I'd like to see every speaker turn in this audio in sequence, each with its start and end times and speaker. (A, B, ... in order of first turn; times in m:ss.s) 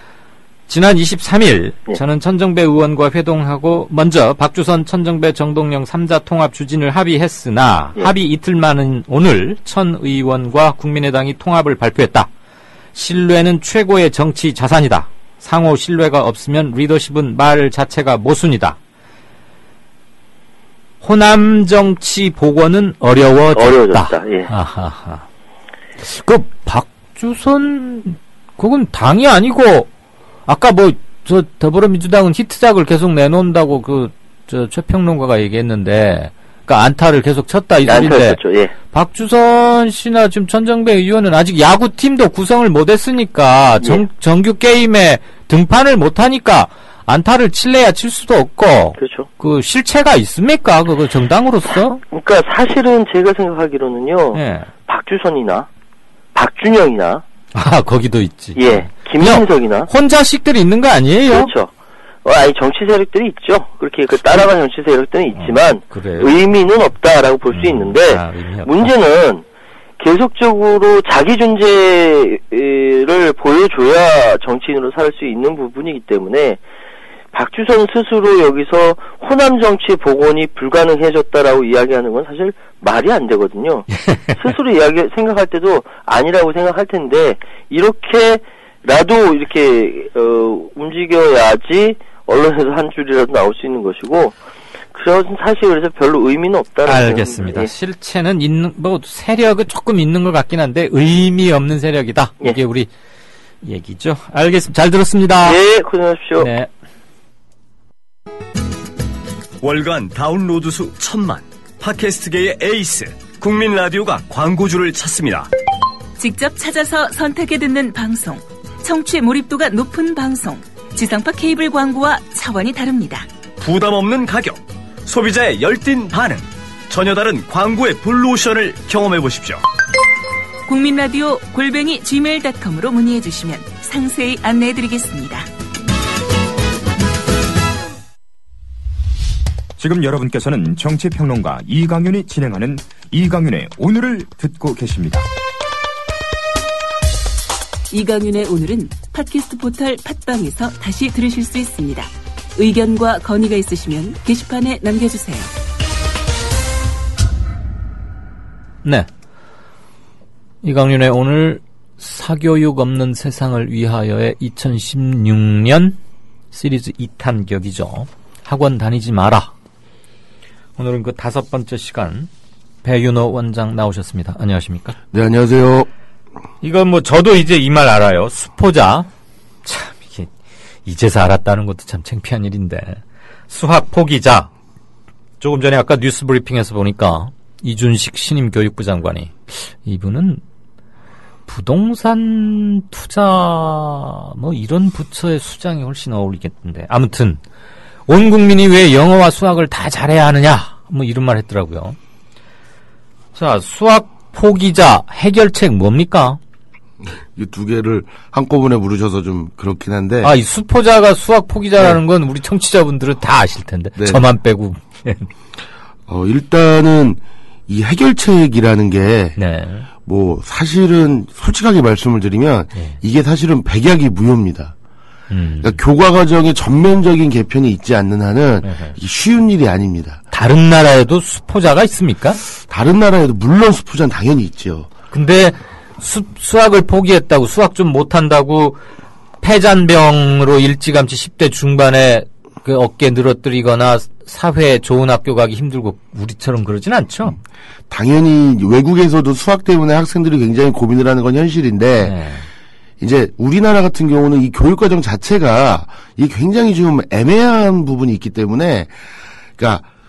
0:00.7-0:12.3 A
0:13.0-0:18.8 A
0:21.0-0:25.2 A
0:23.6-0:24.5 B
0:26.0-0:29.9 A
0:30.5-0:38.4 A
0:37.9-0:38.7 B
0:38.9-0:52.0 A
0:49.0-0:49.3 B
0:52.1-0:55.7 B
0:54.3-0:54.7 A
0:56.3-0:57.2 B
0:57.5-1:01.5 A
0:58.6-0:59.9 B
1:01.3-1:01.7 B
1:02.2-1:09.4 B
1:05.4-1:06.3 A
1:07.5-1:08.9 A
1:10.0-1:16.6 B
1:17.3-1:34.3 B
1:23.9-1:24.3 A
1:34.9-1:37.7 B
1:36.9-1:42.9 A
1:43.6-1:45.6 A
1:45.4-1:46.5 B
1:46.4-1:46.7 A
1:49.6-1:55.5 C
1:56.2-2:03.3 D
2:03.6-2:09.6 C
2:10.7-2:15.5 D
2:19.8-2:25.3 E
2:27.9-2:35.5 D
2:40.6-2:46.0 A
2:46.5-2:49.5 A
2:50.8-2:52.3 A
2:52.8-2:55.0 A
2:55.1-2:55.9 F
2:56.6-2:59.1 A
2:59.6-3:00.3 A
3:00.8-3:04.5 A
3:05.4-3:10.4 A
3:11.5-3:17.4 A
3:18.1-3:22.0 A
3:23.4-3:26.4 A
3:27.0-3:30.3 F
3:30.2-3:35.3 A
3:34.0-3:34.2 F
3:36.1-3:39.4 F
3:39.4-3:39.9 A
3:40.0-3:44.7 F
3:42.7-3:43.0 A
3:45.3-3:45.8 A
3:45.6-3:50.2 F
3:48.6-3:49.0 A
3:50.3-3:52.4 A
3:52.7-3:54.9 F
3:55.1-3:58.8 A
3:59.4-4:07.4 A
4:07.9-4:12.2 F
4:12.0-4:12.5 A
4:13.0-4:18.9 F
4:19.6-4:19.9 F